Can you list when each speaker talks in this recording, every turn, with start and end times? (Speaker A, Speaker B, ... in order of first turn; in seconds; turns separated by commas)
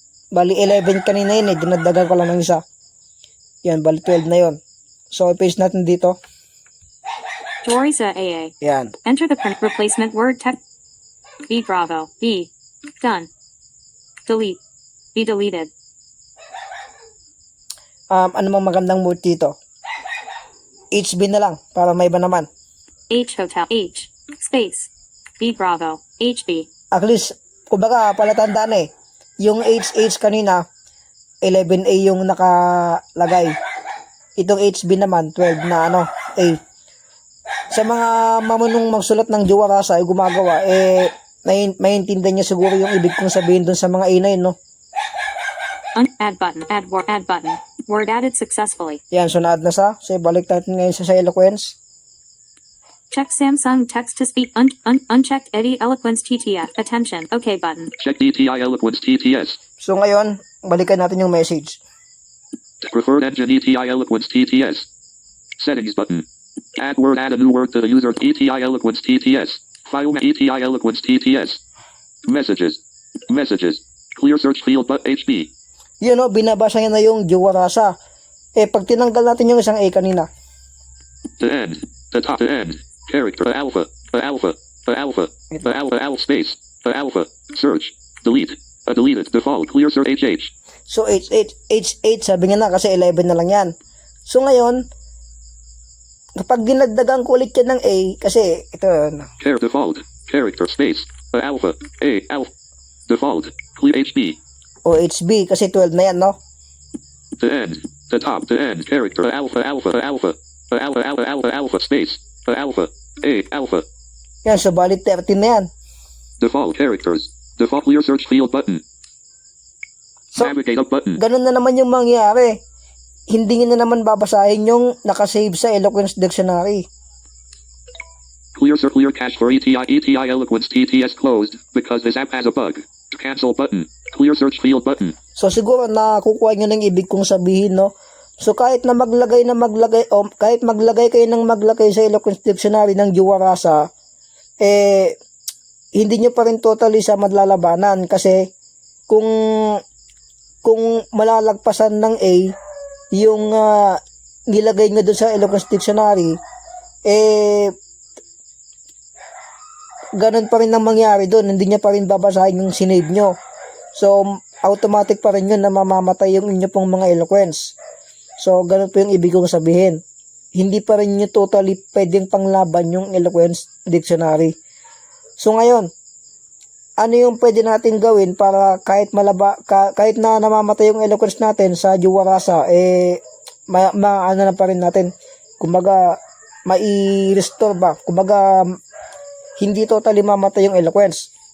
Speaker A: 0.3-2.6, Speaker A: 3.6-4.6, Speaker A: 5.1-6.2, Speaker B: 7.6-8.5, Speaker A: 8.6-8.9, Speaker B: 9.0-10.6, Speaker B: 11.5-13.3, Speaker B: 14.2-14.6, Speaker B: 15.1-15.7, Speaker A: 18.1-19.6, Speaker A: 20.9-22.5, Speaker B: 23.1-26.7, Speaker A: 26.9-28.9, Speaker A: 29.4-30.6, Speaker A: 31.4-33.5, Speaker A: 34.4-36.6, Speaker A: 37.7-44.5, Speaker B: 45.9-49.0, Speaker A: 49.1-51.8, Speaker B: 53.1-57.9, Speaker C: 58.0-59.6, Speaker A: 59.8-61.8, Speaker C: 62.8-64.9, Speaker C: 65.6-66.2, Speaker C: 66.8-71.6, Speaker C: 72.2-75.5, Speaker A: 76.0-77.9, Speaker A: 78.6-80.3, Speaker C: 81.4-90.5, Speaker A: 90.9-93.7, Speaker A: 94.3-94.8, Speaker A: 96.4-99.3, Speaker C: 99.4-102.5, Speaker C: 103.1-104.4, Speaker A: 104.8-106.4, Speaker C: 107.4-113.8, Speaker A: 114.4-115.7, Speaker C: 116.4-118.8, Speaker C: 120.3-121.2, Speaker A: 121.2-122.5, Speaker A: 123.3-126.8, Speaker C: 128.5-135.1, Speaker A: 135.4-143.8, Speaker A: 144.6-145.1, Speaker A: 145.9-148.4, Speaker A: 149.1-149.8, Speaker A: 150.6-152.5, Speaker A: 153.1-156.3, Speaker A: 157.1-157.7, Speaker A: 160.2-163.3, Speaker A: 163.9-167.7, Speaker A: 168.4-170.0, Speaker A: 170.5-174.5, Speaker A: 175.4-175.9, Speaker A: 177.0-186.1, Speaker A: 186.7-188.4, Speaker A: 189.6-191.3